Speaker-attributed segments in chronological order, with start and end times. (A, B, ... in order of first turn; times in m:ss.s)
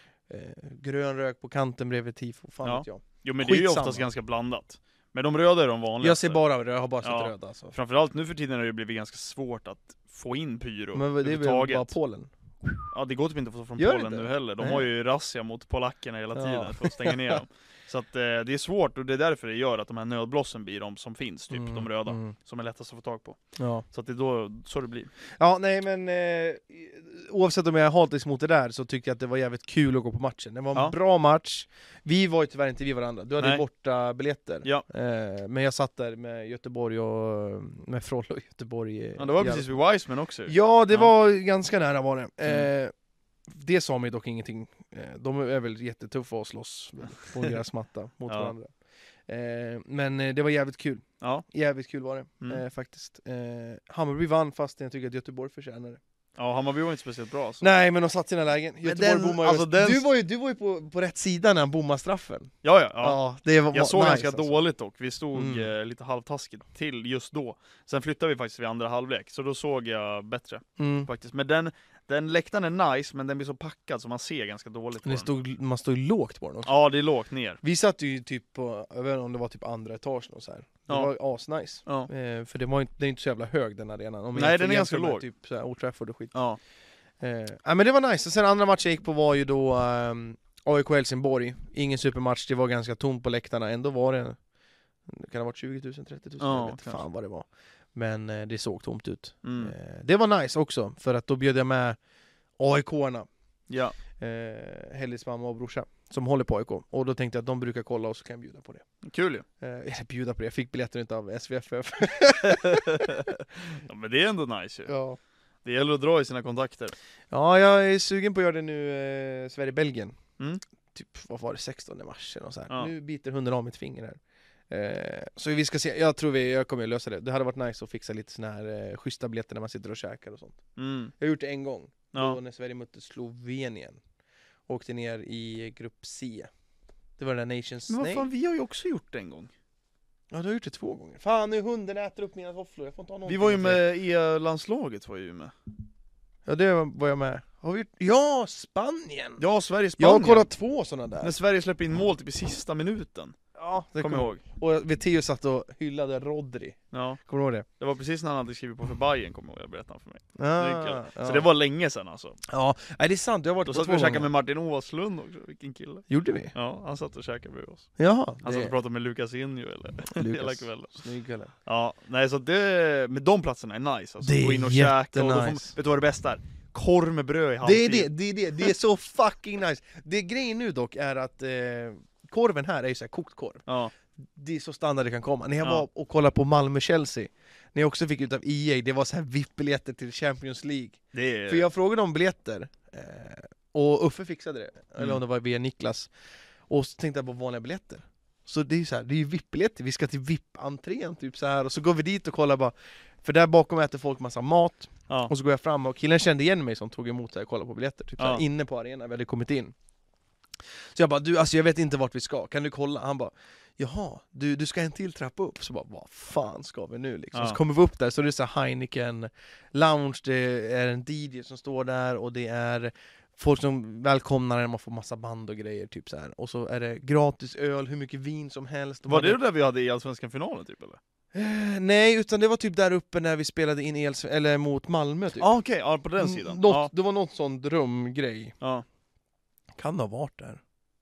0:00.3-0:04.0 A
0:02.6-0:06.4 B
0:06.0-0:07.7 A
0:07.0-0:12.0 B
0:10.9-0:12.8 A
0:12.9-0:25.1 B
0:13.8-0:14.8 A
0:16.3-0:17.4 A
0:21.5-0:22.3 A
0:23.6-0:23.8 A
0:25.4-0:39.7 A
0:39.2-0:41.1 B
0:40.4-0:42.9 A
0:43.5-0:48.7 A
0:48.3-0:48.5 B
0:49.3-0:56.0 A
0:56.4-0:57.6 B
0:57.6-1:04.6 A
0:58.8-1:00.0 B
1:02.6-1:03.2 B
1:03.7-1:15.3 B
1:05.3-1:05.7 A
1:10.8-1:11.1 A
1:15.0-1:16.7 A
1:16.6-1:17.6 B
1:17.6-1:26.3 A
1:24.3-1:25.2 B
1:26.3-1:26.6 B
1:27.2-1:34.4 A
1:35.1-1:42.0 A
1:36.4-1:37.0 B
1:39.4-1:39.7 B
1:42.6-1:43.3 A
1:43.7-1:44.0 B
1:44.2-1:48.8 A
1:49.0-1:49.4 B
1:49.6-1:53.3 A
1:52.4-1:54.9 B
1:54.9-1:55.2 A
1:55.6-1:56.9 B
1:57.3-2:00.2 A
2:00.9-2:04.2 A
2:04.7-2:10.6 A
2:10.8-2:11.1 B
2:11.2-2:14.0 A
2:12.1-2:12.4 B
2:14.7-2:16.5 A
2:17.2-2:18.3 A
2:17.9-2:19.5 B
2:20.3-2:23.8 A
2:23.2-2:25.5 B
2:26.4-2:29.4 A
2:29.4-2:30.5 B
2:30.0-2:31.3 A
2:31.2-2:33.4 B
2:33.5-2:37.6 A
2:34.0-2:34.4 B
2:36.9-2:37.2 B
2:37.8-2:42.4 B
2:40.4-2:41.5 A
2:42.5-2:44.3 A
2:43.6-2:47.9 B
2:46.1-2:46.5 A
2:48.0-2:48.7 A
2:48.4-2:51.0 B
2:50.1-2:51.5 A
2:51.6-2:58.1 B
2:54.2-2:55.7 A
2:57.6-3:03.6 A
3:03.7-3:03.9 B
3:04.2-3:16.1 A
3:11.1-3:11.6 B
3:16.7-3:29.7 A
3:30.9-3:49.4 A
3:49.1-3:51.0 B
3:51.3-3:55.5 A
3:55.4-3:56.9 B
3:56.2-3:58.5 A
3:59.8-4:00.6 A